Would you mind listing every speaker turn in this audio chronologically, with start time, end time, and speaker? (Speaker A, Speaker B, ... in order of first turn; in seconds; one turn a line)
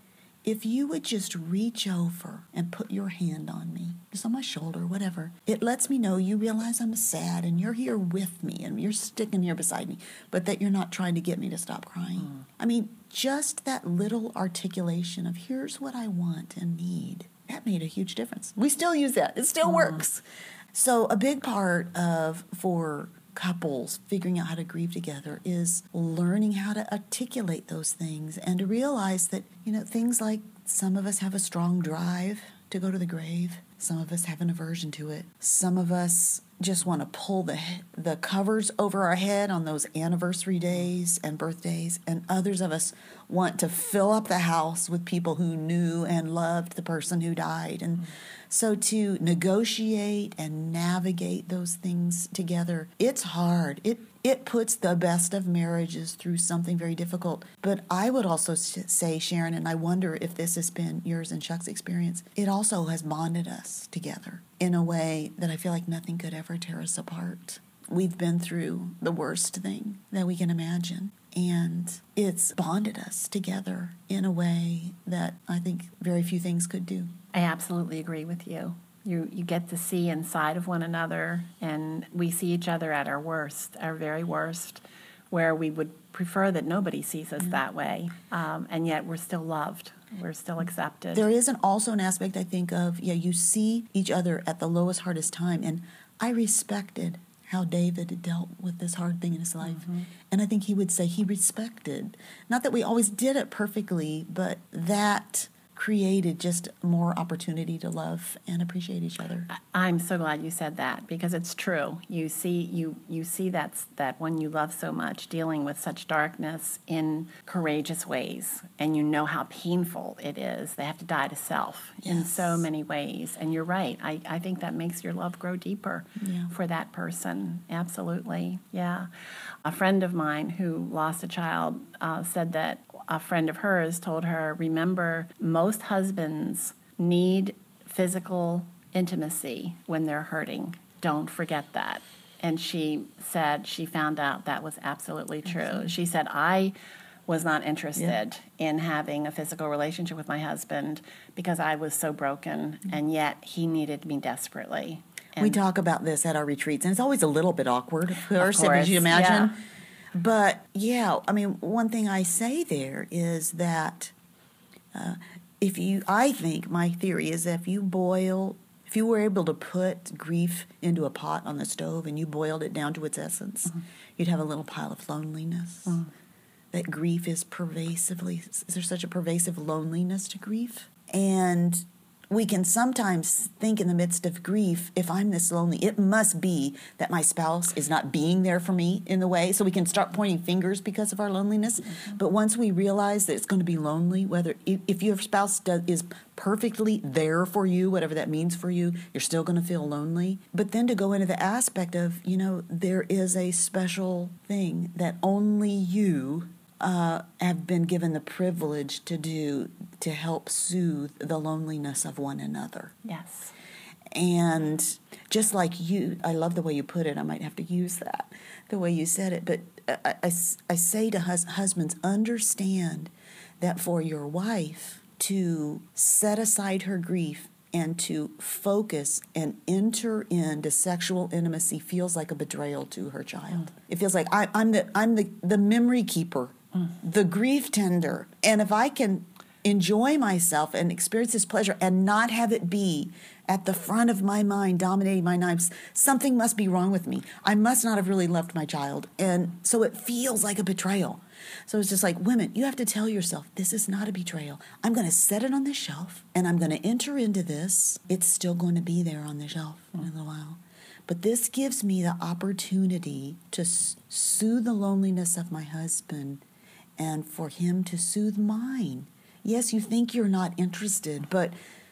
Speaker A: 0.4-77.1
Speaker B: 77.3-91.3
Speaker A: 91.1-109.5
Speaker B: 109.5-129.1
Speaker A: 122.0-122.7
Speaker A: 126.2-126.5
Speaker B: 129.7-146.7
Speaker B: 147.3-155.6
Speaker A: 155.4-159.6
Speaker B: 158.4-159.6
Speaker A: 160.2-164.1
Speaker A: 164.9-176.1
Speaker A: 176.7-212.9
Speaker B: 213.0-213.6
Speaker A: 214.1-266.4
Speaker A: 267.0-271.6